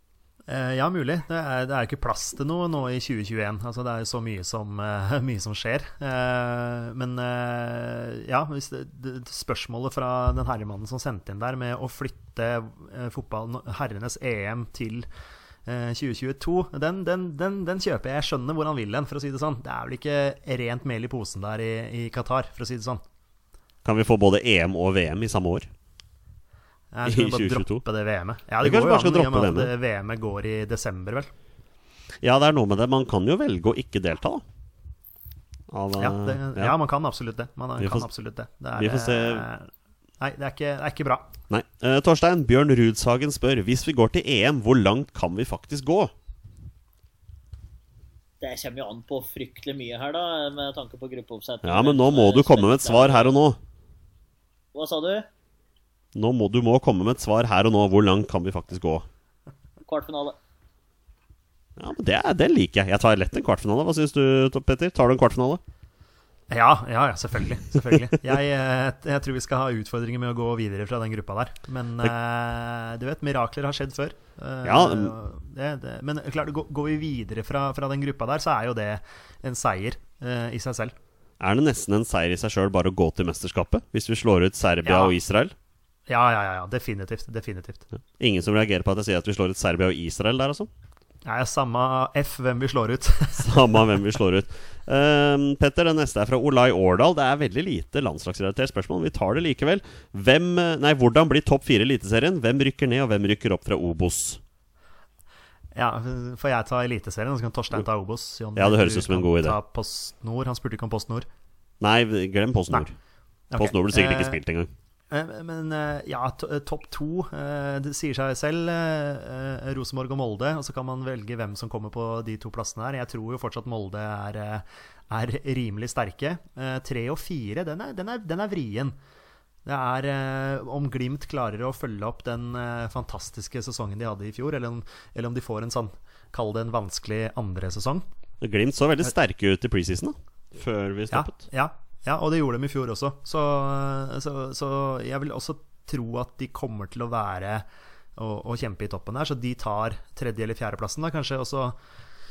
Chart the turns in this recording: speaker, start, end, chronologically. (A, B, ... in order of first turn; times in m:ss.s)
0:00.5-0:15.1 A
0:15.7-0:23.0 A
0:23.8-0:25.7 B
0:26.9-0:31.3 A
0:27.0-0:27.8 B
0:28.6-0:29.7 B
0:32.2-0:34.4 B
0:35.7-0:36.8 B
0:36.0-0:39.7 A
0:37.8-0:38.1 B
0:38.8-0:39.5 B
0:40.2-0:41.3 A
0:41.5-0:46.1 B
0:48.4-0:53.4 C
0:51.6-0:53.6 B
0:54.7-0:55.3 C
0:56.2-0:59.1 B
0:59.8-1:00.4 C
1:01.8-1:05.6 B
1:06.5-1:21.0 A
1:14.6-1:15.1 B
1:21.4-1:25.6 B
1:24.8-1:25.2 A
1:26.1-1:27.9 A
1:28.2-1:30.7 B
1:31.2-1:33.9 A
1:33.4-1:44.4 B
1:45.7-1:51.3 A
1:48.6-1:49.6 B
1:51.8-1:52.9 B
1:53.5-1:54.4 A
1:53.6-1:54.7 B
1:55.1-2:09.0 A
2:09.6-2:18.0 A
2:18.4-2:21.4 B
2:21.1-2:27.7 A
2:28.2-2:31.8 A